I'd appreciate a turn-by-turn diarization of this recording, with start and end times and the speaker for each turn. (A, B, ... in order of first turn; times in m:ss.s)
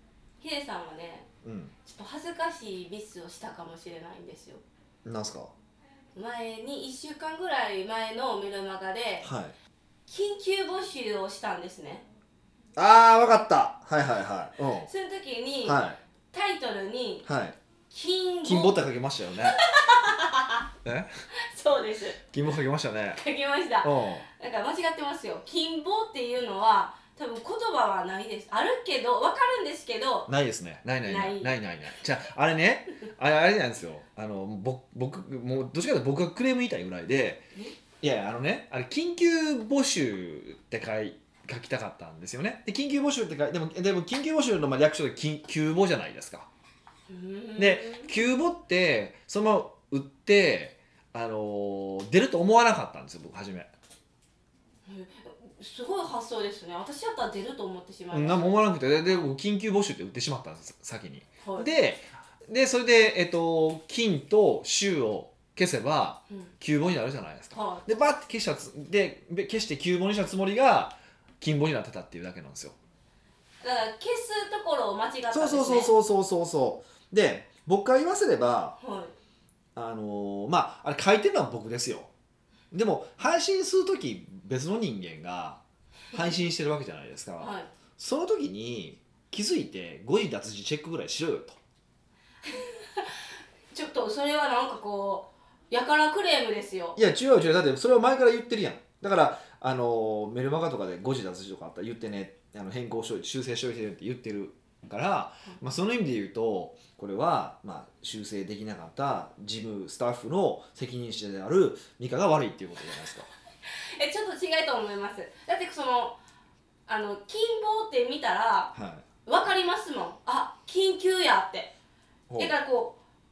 0:00.4-0:01.3 A
0:01.4-0:01.7 B
0:01.8-0:04.6 A
0:05.0-0:05.5 B
0:06.2-0:09.3 A
0:09.2-0:09.6 B
0:10.1-0:12.0 A
0:12.8-0:14.9 B
0:14.9-0:15.8 A
0:15.6-0:16.0 B
0:16.3-0:17.3 A
0:17.2-0:17.6 B
0:17.9-0:18.8 A
0:18.4-0:19.6 B
0:19.5-0:20.7 A
0:20.8-0:21.1 B
0:21.3-0:22.2 A
0:22.3-0:23.2 B
0:23.2-0:30.3 A
0:23.8-0:24.2 B
0:30.3-0:37.4 B
0:31.1-0:31.6 A
0:38.0-0:46.5 B
0:47.1-0:48.1 A
0:47.6-0:53.7 B
0:54.9-0:58.6 A
0:58.1-1:12.8 B
1:01.4-1:01.7 A
1:07.5-1:07.8 A
1:13.6-1:15.9 A
1:15.3-1:18.8 B
1:18.8-1:19.1 A
1:19.8-1:22.1 B
1:22.7-1:25.6 B
1:26.1-1:31.6 B
1:27.4-1:27.7 A
1:32.4-1:33.2 A
1:33.7-1:37.0 A
1:37.0-1:53.3 B
1:53.7-1:56.2 A
1:56.9-1:58.7 A
1:58.7-1:59.1 B
1:59.3-2:01.7 A
2:02.3-2:02.5 B
2:02.4-2:03.0 A